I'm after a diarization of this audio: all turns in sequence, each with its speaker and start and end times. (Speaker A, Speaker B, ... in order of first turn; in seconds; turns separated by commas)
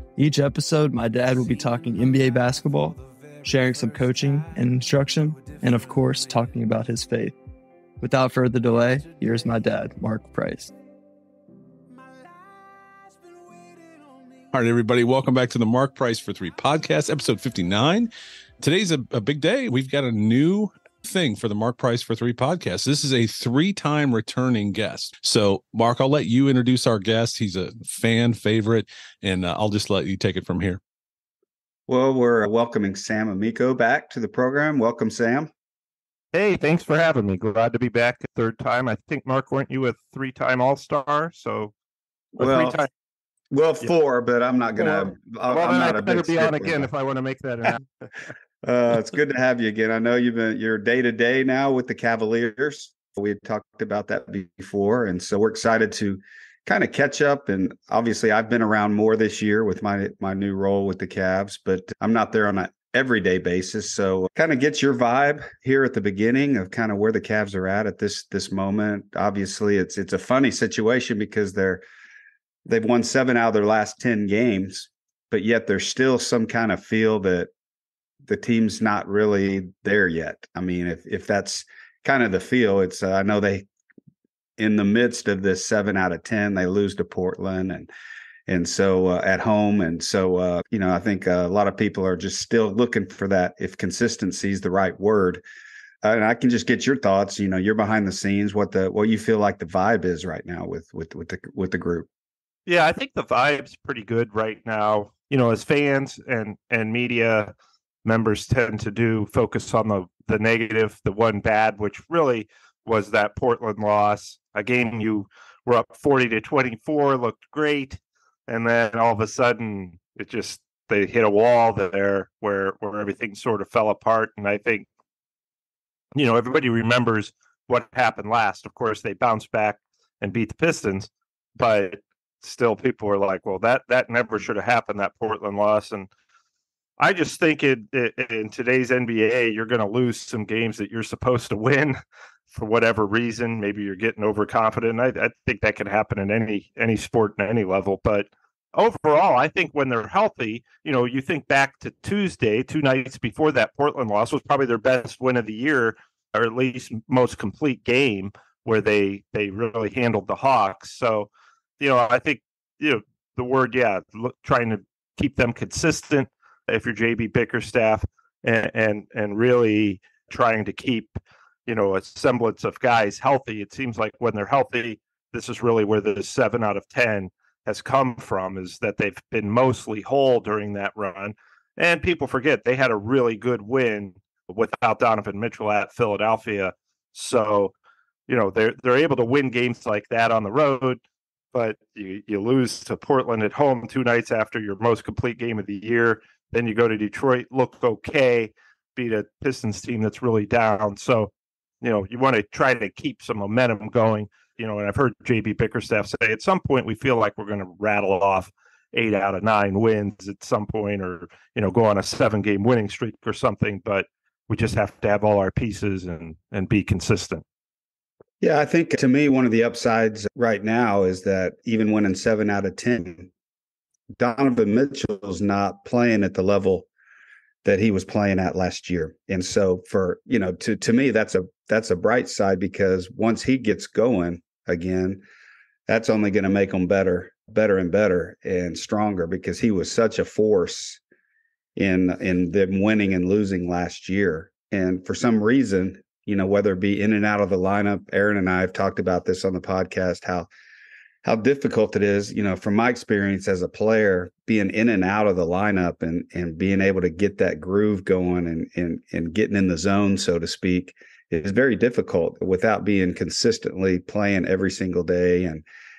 Speaker A: 0.2-7.3, Speaker A: 8.0-10.7, Speaker B: 14.5-30.8, Speaker C: 31.9-35.5, Speaker D: 36.3-41.7, Speaker C: 42.4-42.8, Speaker D: 42.4-42.9, Speaker C: 43.5-46.9, Speaker D: 44.8-48.1, Speaker C: 48.6-71.8, Speaker C: 72.7-77.5, Speaker C: 78.2-83.7, Speaker C: 84.6-87.9, Speaker C: 88.5-95.4, Speaker C: 96.0-102.1, Speaker D: 102.7-107.5, Speaker D: 108.0-124.8, Speaker D: 126.1-136.1, Speaker D: 137.0-142.0, Speaker D: 142.5-171.1, Speaker D: 171.7-187.7, Speaker D: 188.3-191.0, Speaker D: 191.5-217.4, Speaker C: 218.4-223.3, Speaker C: 224.2-226.9, Speaker C: 227.6-235.2, Speaker C: 235.9-241.0, Speaker C: 241.8-250.5, Speaker C: 251.2-265.6